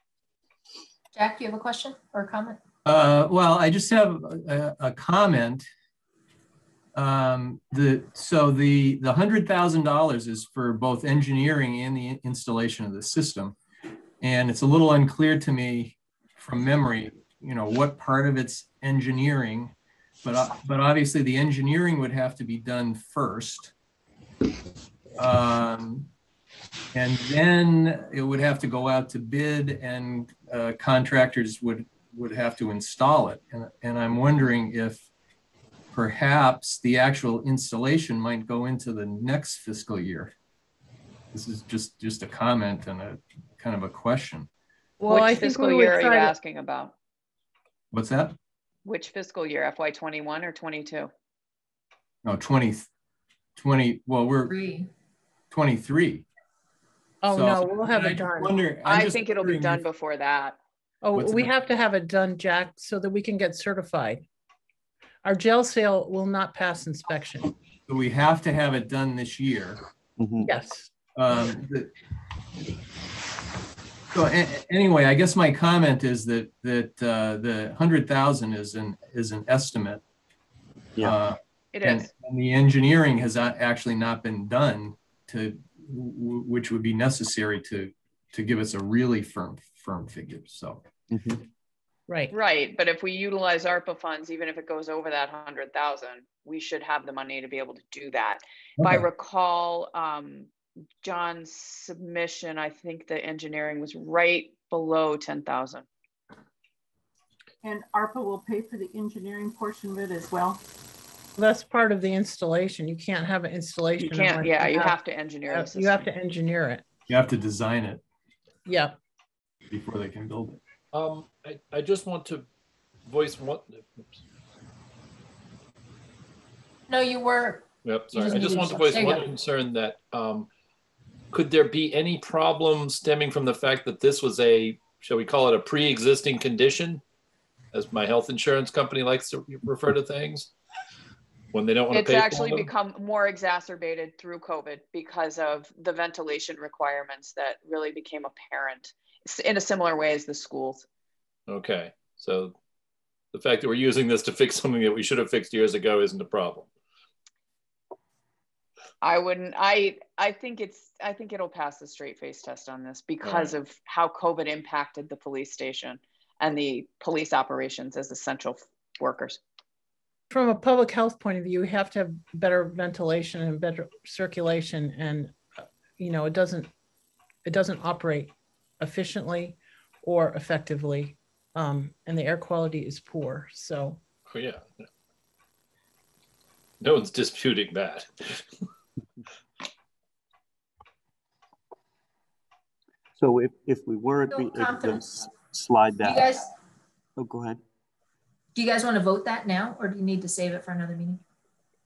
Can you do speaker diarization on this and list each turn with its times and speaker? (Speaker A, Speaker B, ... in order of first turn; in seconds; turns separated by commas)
Speaker A: 1.1-2.6, Speaker B: 2.8-5.7, Speaker B: 6.9-13.5, Speaker B: 14.2-23.7, Speaker B: 25.2-26.1, Speaker B: 26.9-35.0, Speaker B: 35.9-40.3, Speaker B: 41.3-44.5, Speaker C: 45.0-46.3, Speaker D: 45.1-46.9, Speaker B: 47.9-48.3, Speaker D: 48.8-51.1, Speaker B: 52.2-52.9, Speaker B: 53.5-54.5, Speaker A: 54.5-54.9, Speaker B: 55.5-56.2, Speaker C: 57.2-58.5, Speaker B: 57.3-59.8, Speaker D: 58.8-60.6, Speaker C: 61.0-64.2, Speaker B: 61.1-61.5, Speaker C: 65.2-67.5, Speaker B: 67.9-69.8, Speaker E: 70.2-70.5, Speaker C: 70.4-70.9, Speaker B: 71.2-71.9, Speaker B: 74.1-80.0, Speaker B: 81.0-90.8, Speaker D: 81.7-82.1, Speaker E: 91.1-91.4, Speaker D: 92.3-100.5, Speaker D: 101.0-105.8, Speaker F: 107.6-110.6, Speaker C: 111.4-114.9, Speaker D: 114.0-116.1, Speaker C: 115.5-116.8, Speaker B: 117.1-118.0, Speaker C: 118.7-119.0, Speaker B: 119.7-120.6, Speaker G: 120.9-122.5, Speaker G: 123.0-124.1, Speaker A: 126.9-129.3, Speaker G: 127.8-130.5, Speaker G: 131.3-137.0, Speaker G: 137.7-140.5, Speaker G: 141.5-142.7, Speaker D: 141.9-150.9, Speaker G: 151.5-152.5, Speaker G: 153.3-156.7, Speaker D: 159.0-169.4, Speaker C: 170.3-176.7, Speaker C: 177.4-184.0, Speaker G: 184.3-184.8, Speaker G: 186.8-188.4, Speaker E: 193.2-196.3, Speaker A: 194.3-195.3, Speaker A: 196.0-196.4, Speaker E: 197.2-197.6, Speaker A: 198.5-201.2